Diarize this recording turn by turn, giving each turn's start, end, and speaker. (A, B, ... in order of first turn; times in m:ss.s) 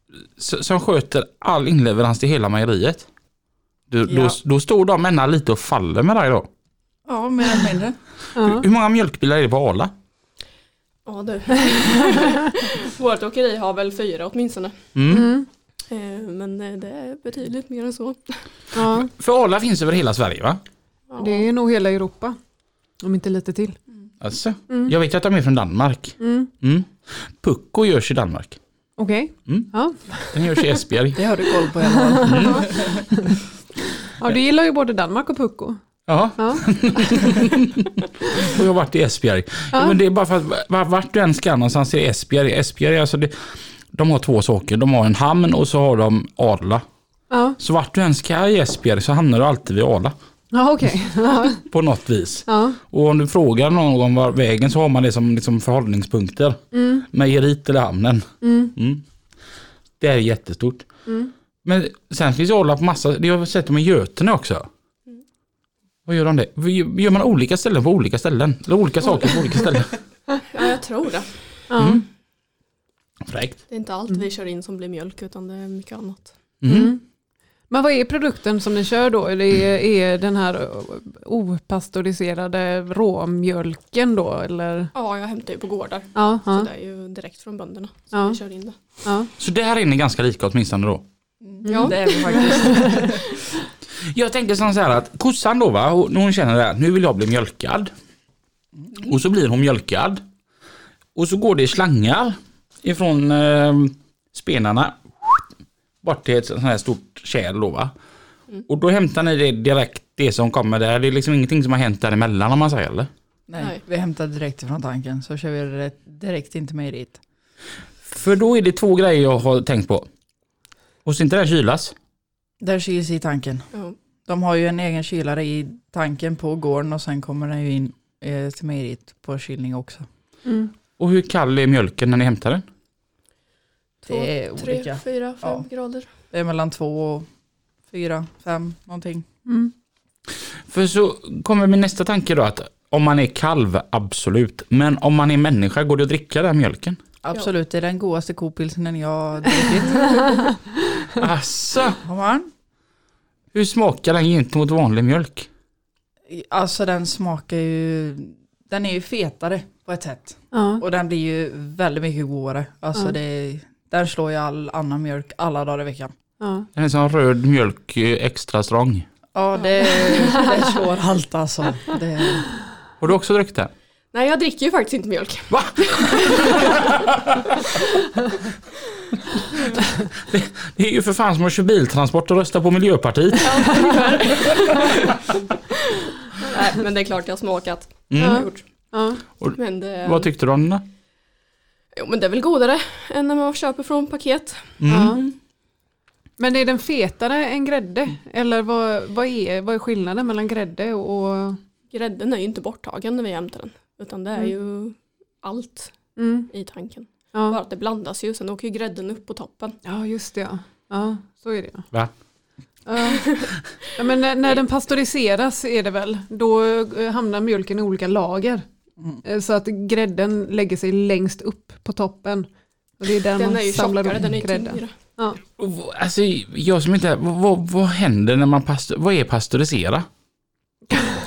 0:00.4-0:03.1 A
0:03.9-0:06.5 A
0:04.1-0:04.4 B
0:07.1-0:08.0 B
0:08.4-0:08.7 C
0:08.4-0:09.9 A
0:11.1-0:14.7 D
0:15.0-0:15.3 A
0:15.1-0:15.5 C
0:15.9-0:18.4 D
0:18.7-0:19.1 C
0:18.8-0:20.6 A
0:21.1-0:21.5 D
0:21.2-0:22.4 C
0:23.0-0:23.8 C
0:24.2-0:28.6 A
0:24.7-0:24.9 C
0:26.2-0:26.5 C
0:29.0-0:30.7 C
0:30.2-0:31.2 A
0:31.2-0:32.9 B
0:32.0-0:32.6 C
0:32.3-0:32.6 A
0:34.2-0:35.8 C
0:36.1-0:43.3 A
0:36.4-0:36.7 C
0:39.7-0:40.0 C
0:43.9-0:46.8 A
0:47.3-0:47.6 C
0:47.6-0:50.1 A
0:50.5-0:51.6 C
0:51.6-0:59.0 A
0:52.5-0:52.8 C
0:56.7-0:57.0 C
0:58.4-0:58.7 C
1:00.0-1:00.9 A
1:01.1-1:01.3 C
1:01.6-1:04.7 A
1:06.1-1:09.9 A
1:10.5-1:11.3 D
1:11.7-1:12.0 C
1:11.8-1:12.0 A
1:13.2-1:13.6 A
1:13.7-1:16.3 D
1:16.6-1:17.0 A
1:16.7-1:17.0 C
1:17.7-1:24.9 C
1:24.9-1:28.8 D
1:26.2-1:26.7 C
1:28.1-1:28.4 C
1:29.0-1:29.3 C
1:29.4-1:31.0 A
1:31.4-1:33.2 B
1:31.6-1:32.9 C
1:31.7-1:32.8 D
1:34.1-1:37.9 A
1:39.0-1:40.2 A
1:41.2-1:45.5 A
1:46.0-1:47.9 A
1:48.7-1:53.1 A
1:53.5-1:57.2 B
1:58.0-2:00.1 A
2:01.0-2:01.9 A
2:02.6-2:03.7 B
2:04.2-2:10.1 B
2:10.4-2:10.7 C
2:11.0-2:12.6 A
2:14.0-2:15.7 B
2:14.1-2:16.1 D
2:16.3-2:17.3 B
2:17.9-2:19.2 B
2:19.5-2:19.7 C
2:20.7-2:27.0 A
2:27.2-2:30.4 B
2:31.2-2:32.0 A
2:32.0-2:32.5 B
2:33.5-2:35.5 A
2:36.3-2:46.1 B
2:40.5-2:40.8 C
2:46.4-2:46.7 C
2:46.8-2:49.1 A
2:49.3-2:52.5 B
2:53.0-2:53.7 A
2:54.1-2:56.9 D
2:55.5-2:57.4 A
3:00.2-3:04.0 A
3:03.4-3:05.2 D
3:06.4-3:08.7 D
3:08.1-3:08.5 A
3:08.2-3:09.2 C
3:09.4-3:10.8 A
3:09.6-3:10.3 D
3:12.0-3:15.4 D
3:14.8-3:15.2 A
3:14.9-3:15.2 C
3:16.4-3:21.6 C
3:21.9-3:29.8 D
3:26.2-3:26.5 C
3:29.8-3:31.9 C
3:32.9-3:33.3 C
3:33.2-3:33.5 D
3:34.0-3:38.7 C
3:39.2-3:42.5 C
3:43.0-3:45.4 C
3:43.4-3:45.0 D
3:45.6-3:50.1 A